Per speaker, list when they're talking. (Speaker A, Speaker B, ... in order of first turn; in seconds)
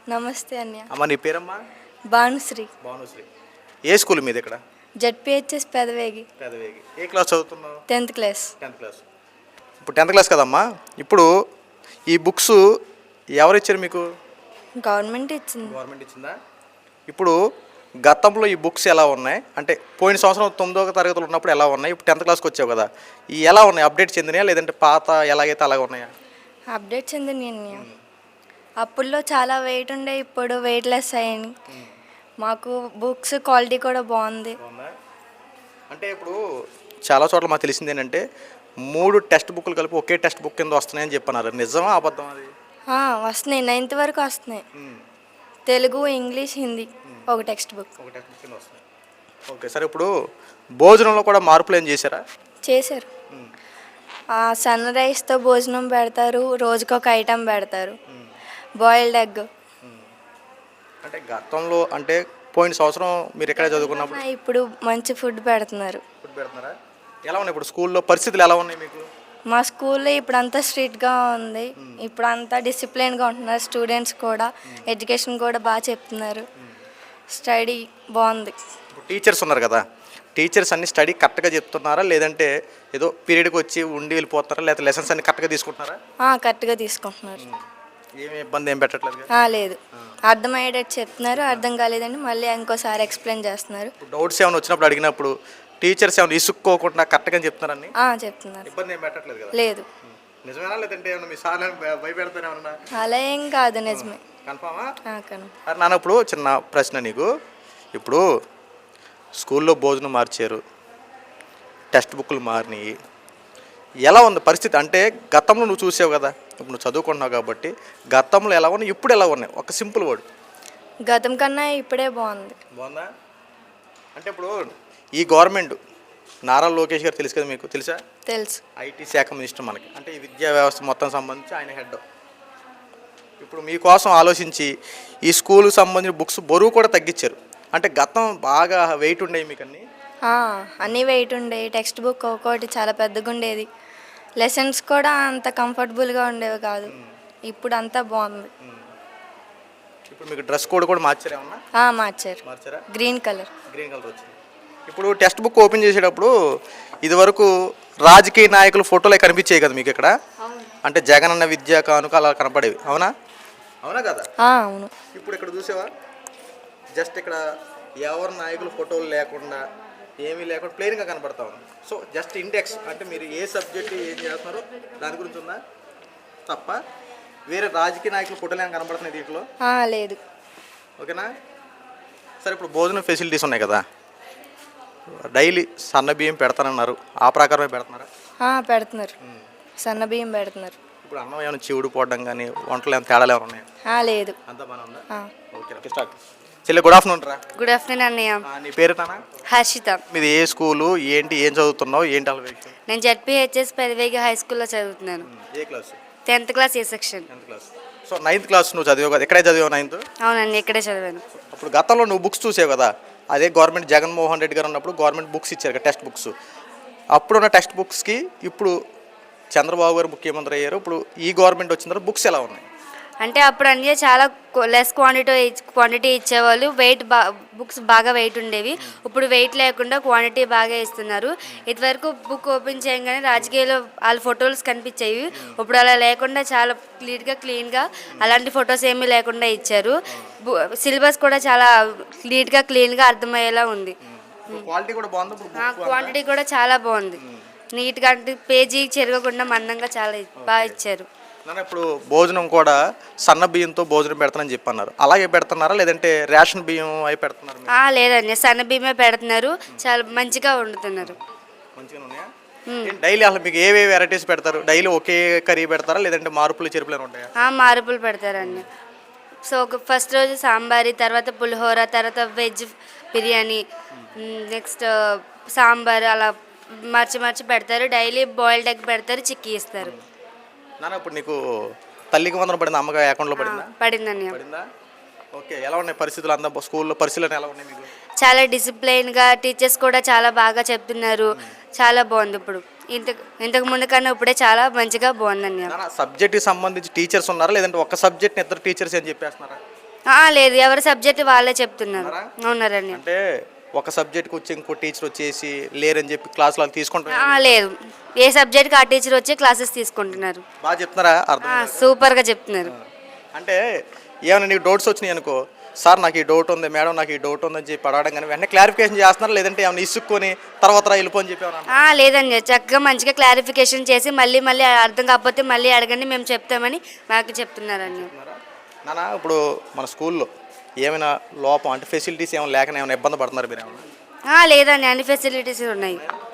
Speaker A: 0.1-0.9, 2.1-2.7, 5.0-6.3, 7.9-8.5, 14.8-15.8, 26.8-27.9, 28.8-31.5, 32.4-34.6, 42.9-44.6, 45.7-47.9, 52.7-53.1, 54.4-58.0, 58.8-59.5, 63.5-66.0, 69.5-76.5, 77.3-78.5, 86.3-87.4, 89.3-93.9, 98.0-98.7, 99.5-99.9, 103.0-104.2, 105.1-105.5, 121.1-122.6, 128.3-128.6, 140.3-143.7, 144.4-146.9, 147.5-148.5, 151.8-152.4, 152.9-153.5, 164.4-164.9, 179.6-180.2, 188.4-189.2, 189.8-190.8, 193.9-194.4
Speaker B: 0.9-1.6, 2.8-3.3, 3.9-4.6, 6.4-7.8, 8.6-9.0, 9.8-11.3, 12.1-12.6, 13.4-14.1, 15.7-16.4, 17.1-17.4, 18.1-26.1, 27.7-28.0, 34.6-34.9, 35.9-36.4, 37.1-38.2, 38.9-42.5, 44.8-45.0, 48.0-48.8, 49.5-50.1, 50.8-52.2, 61.0-64.2, 66.2-69.1, 78.9-79.8, 80.4-86.0, 88.2-89.3, 91.3-91.6, 94.0-97.9, 98.7-102.8, 103.9-104.9, 105.7-107.3, 108.0-108.2, 109.4-110.6, 111.9-112.9, 114.1-120.2, 122.7-123.1, 124.2-125.8, 126.5-128.0, 128.8-132.0, 133.4-134.7, 135.2-139.8, 148.6-148.9, 150.1-151.6, 152.4-152.8, 153.7-154.3, 154.9-156.3, 157.0-157.5, 158.0-160.1, 160.8-163.1, 163.8-164.3, 165.1-165.9, 167.0-167.4, 168.0-169.6, 170.2-175.6, 176.5-176.8, 177.5-179.5, 181.0-181.3, 182.4-183.8, 185.2-188.1, 191.0-193.7, 194.5-196.2, 196.7-197.4, 198.4-199.3, 200.1-202.8, 205.2-206.0, 207.3-210.0, 211.3-216.3, 217.2-218.8, 219.5-222.7, 244.1-246.2, 247.2-247.4, 250.4-250.8, 251.5-257.8, 261.8-262.3, 262.8-267.3, 268.4-268.6, 280.8-281.4, 282.1-283.7, 284.3-284.6, 285.3-287.9, 295.7-299.6, 301.9-302.3, 302.9-303.2, 303.8-307.6, 310.1-311.9, 312.7-313.6, 314.3-321.8, 327.8-330.3, 330.8-333.9, 335.9-336.2
Speaker C: 197.6-198.4, 199.5-200.0, 202.9-205.3, 206.3-207.3, 210.2-211.2, 223.2-244.0, 245.6-247.2, 247.8-251.1, 257.7-261.2, 262.7-262.9, 267.4-268.7, 269.4-273.6, 274.2-279.9, 283.4-284.4, 288.2-295.7, 300.1-303.0, 307.1-310.4, 311.4-312.7, 321.7-328.1, 334.3-336.0